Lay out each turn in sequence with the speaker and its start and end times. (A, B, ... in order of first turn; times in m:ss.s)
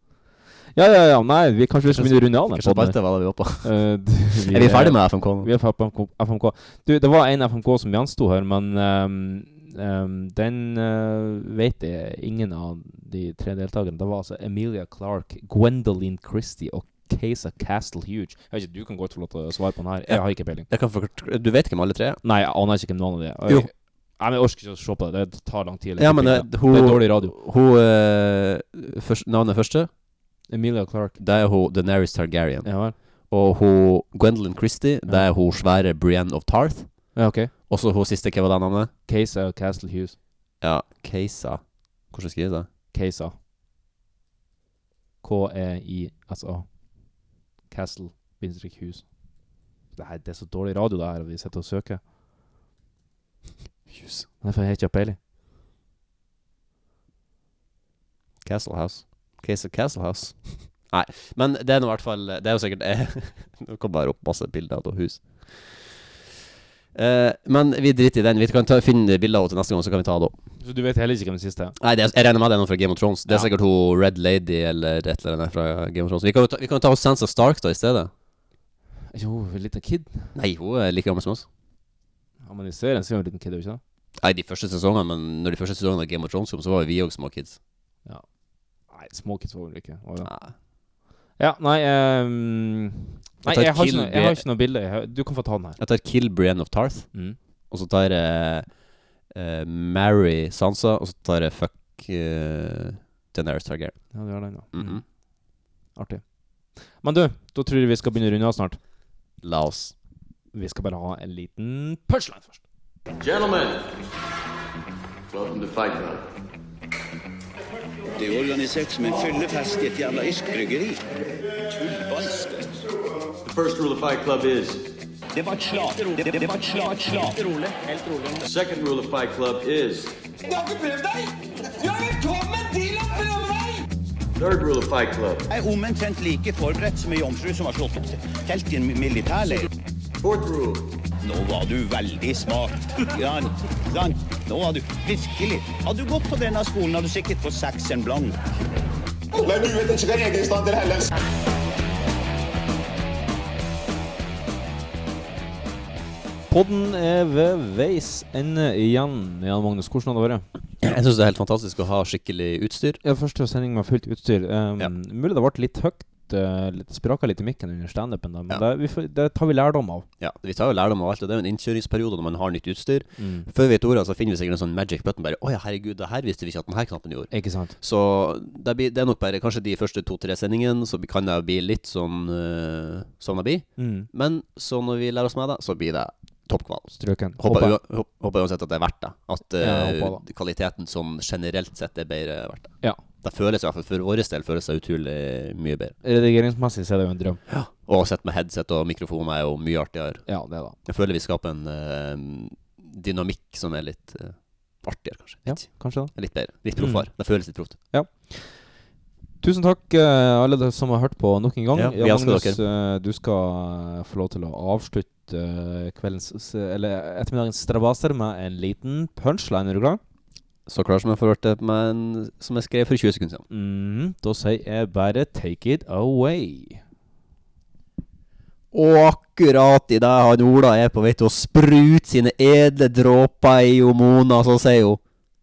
0:00.7-0:20.7 A
0:01.9-0:03.8 B
0:04.4-0:05.5 B
0:20.1-0:22.2 B
0:22.2-0:27.3 A
0:26.0-0:29.9 B
0:30.5-0:31.2 A
0:31.2-0:32.7 B
0:32.6-0:33.0 A
0:33.3-0:37.1 B
0:37.1-0:37.5 A
0:37.7-0:38.9 B
0:39.1-0:40.2 A
0:40.6-0:42.7 B
0:42.9-0:43.3 A
0:45.2-0:46.6 A
0:47.7-0:49.0 A
0:49.9-0:52.0 A
0:53.9-0:54.3 B
0:54.4-0:55.2 A
0:58.4-1:06.0 B
1:06.9-1:10.4 B
1:10.6-1:11.8 A
1:11.8-1:18.1 B
1:19.1-1:20.3 A
1:20.3-1:21.5 B
1:22.4-1:23.8 A
1:24.2-1:27.6 B
1:28.9-1:30.3 A
1:30.2-1:30.5 B
1:31.4-1:35.8 A
1:33.4-1:34.4 B
1:35.8-1:37.1 B
1:37.7-1:38.7 B
1:39.3-1:44.0 B
1:44.1-1:45.0 A
1:44.7-1:45.0 B
1:46.0-1:46.2 A
1:46.9-1:48.8 A
1:49.4-1:49.9 B
1:50.5-1:52.6 A
1:53.2-1:53.8 C
1:55.3-1:56.2 C
1:58.2-2:01.0 D
2:01.7-2:02.7 D
2:03.5-2:04.8 C
2:05.3-2:08.5 D
2:08.5-2:10.1 C
2:13.1-2:13.4 E
2:14.4-2:15.4 C
2:15.5-2:19.7 D
2:20.2-2:20.8 C
2:21.2-2:28.4 D
2:29.3-2:31.1 E
2:36.5-2:40.4 A
2:40.8-2:43.0 B
2:43.0-2:50.0 A
2:50.2-3:16.0 B
2:53.2-2:53.5 A
2:57.3-2:57.7 A
3:03.8-3:04.1 A
3:07.0-3:07.8 A
3:09.6-3:10.2 A
3:16.0-3:17.4 A
3:17.5-3:20.3 B
3:20.3-3:20.8 A
3:20.8-3:27.8 B
3:25.4-3:27.1 A
3:27.8-3:28.6 A
3:29.4-3:40.0 A
3:31.7-3:32.6 B
3:40.6-3:43.4 B
3:43.5-3:46.8 A
3:48.7-3:55.0 B